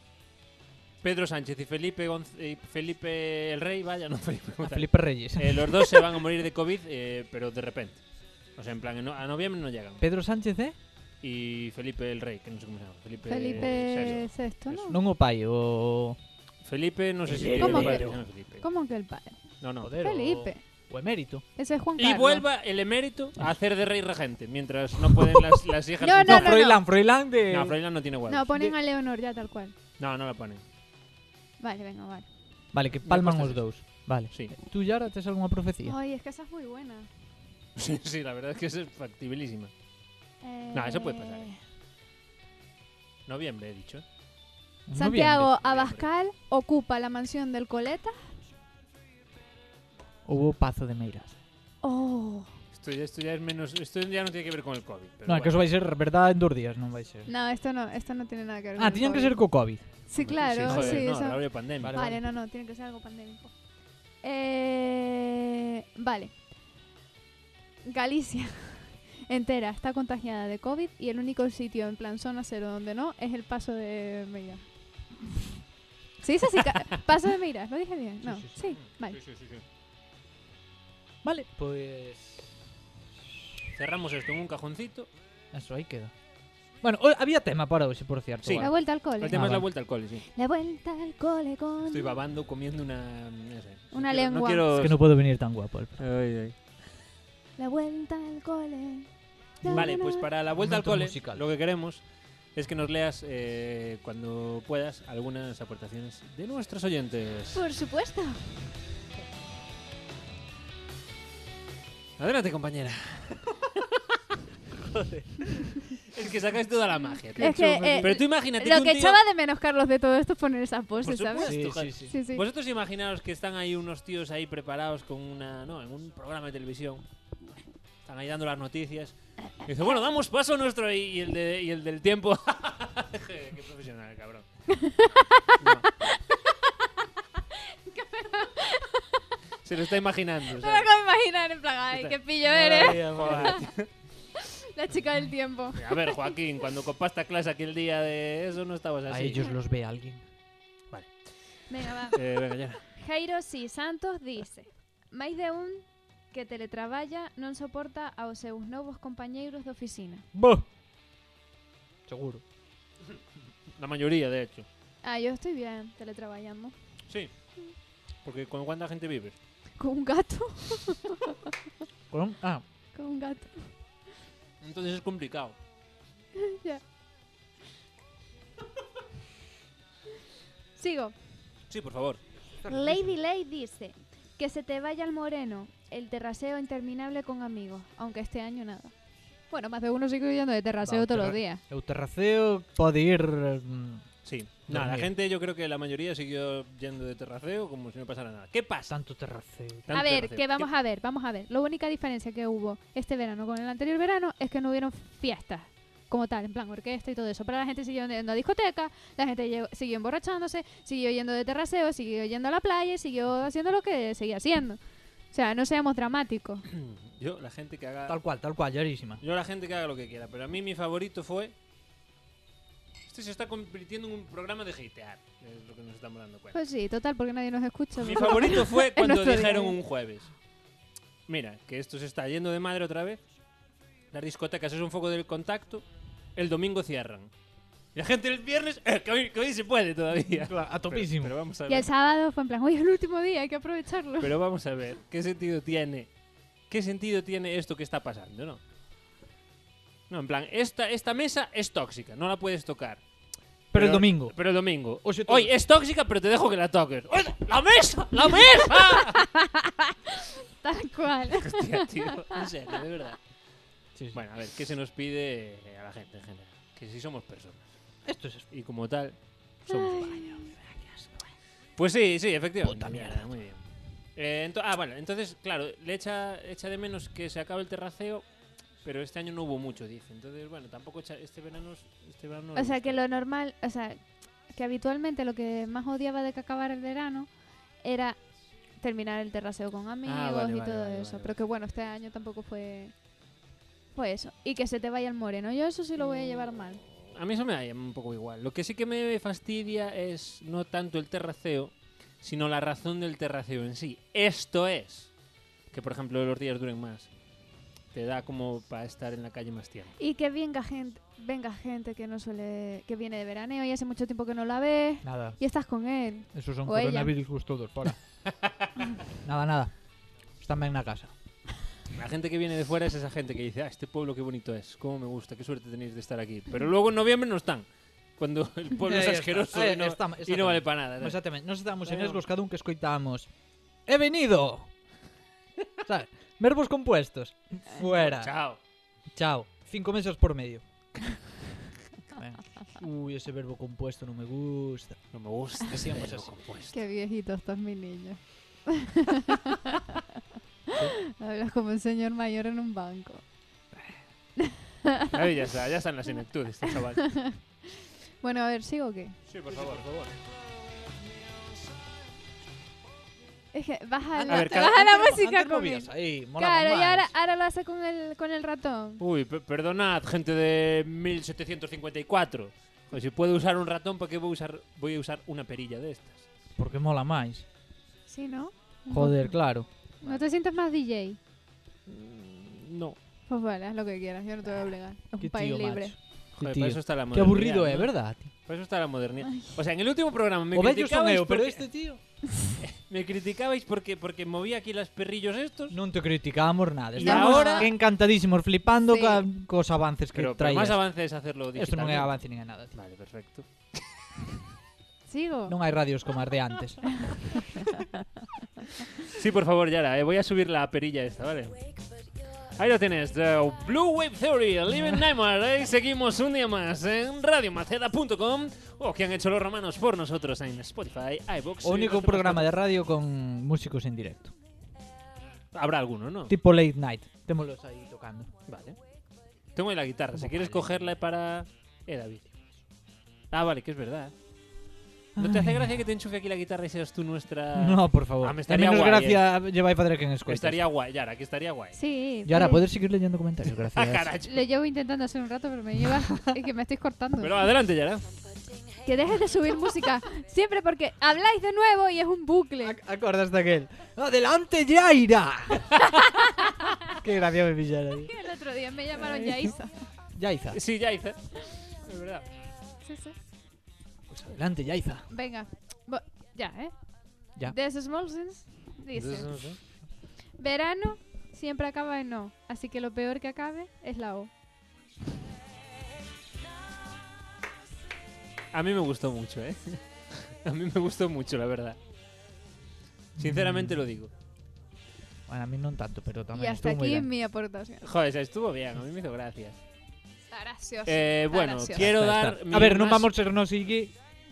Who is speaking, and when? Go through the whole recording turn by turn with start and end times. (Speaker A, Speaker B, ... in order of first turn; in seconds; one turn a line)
Speaker A: 1.0-8.0
Speaker B: 4.6-6.0
Speaker A: 8.6-10.0
Speaker B: 10.0-10.8
Speaker A: 11.2-14.9
Speaker C: 13.3-15.0
Speaker B: 13.6-14.2
Speaker B: 14.9-16.2
Speaker A: 16.6-18.7
Speaker B: 17.3-18.2
Speaker C: 17.6-19.4
Speaker A: 19.6-19.9
Speaker B: 19.8-21.4
Speaker C: 19.9-20.6
Speaker C: 21.6-22.4
Speaker A: 22.0-26.7
Speaker C: 26.0-26.8
Speaker B: 26.2-27.8
Speaker A: 27.5-28.5
Speaker C: 28.3-29.7
Speaker A: 30.0-30.6
Speaker C: 31.6-32.3
Speaker B: 32.7-36.0
Speaker A: 33.0-34.5
Speaker C: 35.8-37.1
Speaker A: 37.8-39.7
Speaker C: 40.4-41.6
Speaker A: 40.7-41.5
Speaker A: 43.3-44.0
Speaker B: 44.9-45.5
Speaker C: 44.9-48.2
Speaker A: 45.5-46.1
Speaker B: 50.3-51.4
Speaker C: 51.8-52.5
Speaker A: 52.7-55.7
Speaker B: 55.3-57.3
Speaker C: 57.3-59.5
Speaker B: 58.8-61.2
Speaker C: 60.0-63.5
Speaker A: 60.2-62.0
Speaker B: 61.8-62.2
Speaker C: 64.2-66.3
Speaker C: 67.8-74.6
Speaker C: 76.2-79.2
Speaker B: 78.2-78.7
Speaker A: 78.6-79.6
Speaker B: 81.2-82.6
Speaker A: 83.8-85.1
Speaker B: 85.5-86.1
Speaker B: 86.8-89.7
Speaker A: 88.4-90.2
Speaker C: 88.6-89.4
Speaker C: 90.3-92.2
Speaker A: 91.9-95.0
Speaker C: 93.9-94.7
Speaker B: 94.7-96.0
Speaker A: 96.0-96.6
Speaker C: 97.6-100.3
Speaker B: 99.6-99.9
Speaker A: 99.7-107.6
Speaker B: 100.5-101.5
Speaker C: 107.5-108.4
Speaker A: 112.2-113.5
Speaker B: 114.8-115.8
Speaker A: 116.1-119.2
Speaker C: 117.4-122.4
Speaker B: 117.4-118.2
Speaker A: 121.0-127.0
Speaker B: 121.4-122.1
Speaker A: 128.1-134.7
Speaker C: 134.8-136.4
Speaker A: 135.6-135.9
Speaker C: 137.6-139.2
Speaker A: 139.6-140.9
Speaker C: 140.6-143.5
Speaker A: 141.9-143.9
Speaker B: 142.5-143.7
Speaker C: 144.7-146.3
Speaker A: 145.8-149.5
Speaker B: 149.1-150.2
Speaker A: 150.9-152.8
Speaker C: 151.7-160.3
Speaker B: 160.3-160.7
Speaker B: 162.1-162.4
Speaker A: 163.8-164.7
Speaker C: 165.0-166.8
Speaker A: 168.2-169.4
Speaker C: 169.8-171.1
Speaker B: 172.1-172.6
Speaker C: 172.9-173.8
Speaker A: 174.6-175.6
Speaker C: 176.4-176.8
Speaker C: 180.8-181.2
Speaker A: 181.7-182.2
Speaker B: 182.6-183.1
Speaker C: 182.7-188.9
Speaker C: 189.5-191.6
Speaker B: 190.8-194.1
Speaker A: 194.2-198.9
Speaker B: 194.7-195.1
Speaker B: 198.9-200.1
Speaker A: 199.9-200.7
Speaker C: 199.9-216.7
Speaker A: 216.7-218.2
Speaker B: 218.1-219.2
Speaker A: 219.2-221.5
Speaker A: 223.1-226.6
Speaker C: 226.5-229.8
Speaker A: 228.0-230.3
Speaker A: 231.3-233.2
Speaker A: 234.1-237.3
Speaker A: 237.9-241.9
Speaker B: 240.4-241.3
Speaker C: 241.7-244.3
Speaker A: 244.2-246.1
Speaker A: 246.7-248.6
Speaker A: 250.1-253.0
Speaker B: 253.7-254.4
Speaker A: 253.7-259.3
Speaker B: 255.0-255.5
Speaker C: 259.1-262.4
Speaker A: 261.3-263.2
Speaker B: 263.9-264.2
Speaker A: 264.1-267.7
Speaker B: 268.1-268.5
Speaker A: 268.5-270.2
Speaker C: 269.7-270.5
Speaker B: 270.1-271.3
Speaker A: 271.8-273.6
Speaker B: 272.6-273.3
Speaker A: 274.2-278.3
Speaker A: 278.8-283.0
Speaker C: 282.6-288.2
Speaker C: 288.8-293.0
Speaker A: 290.1-291.4
Speaker C: 293.9-296.8
Speaker A: 297.1-305.1
Speaker A: 305.7-307.1
Speaker A: 307.9-310.0
Speaker C: 310.0-317.1
Speaker B: 315.0-315.4
Speaker B: 316.3-318.0
Speaker B: 319.2-319.8
Speaker B: 320.4-321.1
Speaker A: 321.9-331.3
Speaker B: 328.9-333.3
Speaker A: 331.8-332.2
Speaker B: 333.9-334.7
Speaker B: 335.8-338.4
Speaker A: 337.8-338.6
Speaker B: 339.1-341.2
Speaker B: 342.1-345.1
Speaker A: 345.1-346.8
Speaker B: 345.6-346.3
Speaker C: 346.7-349.6
Speaker C: 351.1-353.2
Speaker A: 355.1-357.3
Speaker C: 357.1-357.6
Speaker C: 358.2-359.2
Speaker A: 359.3-360.1
Speaker B: 359.5-360.1
Speaker C: 363.5-369.0
Speaker B: 364.2-367.1
Speaker A: 364.3-364.8
Speaker A: 369.0-376.3
Speaker B: 376.6-377.5
Speaker C: 378.1-381.2
Speaker B: 378.9-379.7
Speaker A: 381.9-383.0
Speaker C: 383.3-385.9
Speaker B: 385.2-388.3
Speaker A: 386.4-395.8
Speaker B: 390.5-392.0
Speaker B: 395.7-400.9
Speaker A: 397.0-397.7
Speaker C: 397.0-397.7
Speaker C: 398.9-399.2
Speaker A: 400.1-403.9
Speaker B: 401.5-402.7
Speaker C: 405.1-405.6
Speaker B: 405.5-407.4
Speaker A: 409.1-412.0
Speaker A: 412.6-422.5
Speaker B: 414.7-415.0
Speaker B: 421.6-424.3
Speaker A: 425.5-426.4
Speaker B: 426.3-428.3
Speaker A: 428.5-428.8
Speaker A: 429.5-432.4
Speaker B: 430.1-430.9
Speaker A: 433.3-434.1
Speaker B: 435.2-435.8
Speaker A: 435.2-439.2
Speaker B: 437.6-440.6
Speaker A: 440.3-441.8
Speaker C: 441.7-442.6
Speaker B: 442.3-444.1
Speaker A: 443.5-444.4
Speaker C: 444.3-447.4
Speaker A: 447.2-448.1
Speaker C: 448.8-452.8
Speaker B: 452.6-455.7
Speaker B: 457.0-458.1
Speaker C: 458.1-459.9
Speaker A: 459.2-459.4
Speaker B: 460.2-460.6
Speaker A: 460.5-462.3
Speaker C: 462.8-463.1
Speaker B: 464.1-465.1
Speaker C: 465.1-469.5
Speaker A: 468.9-469.6
Speaker C: 470.4-474.3
Speaker A: 478.5-481.8
Speaker A: 483.2-484.1
Speaker B: 483.2-483.8
Speaker B: 485.3-487.1
Speaker C: 486.3-487.8
Speaker A: 487.8-489.6
Speaker C: 490.3-491.9
Speaker A: 490.9-493.1
Speaker B: 491.7-493.9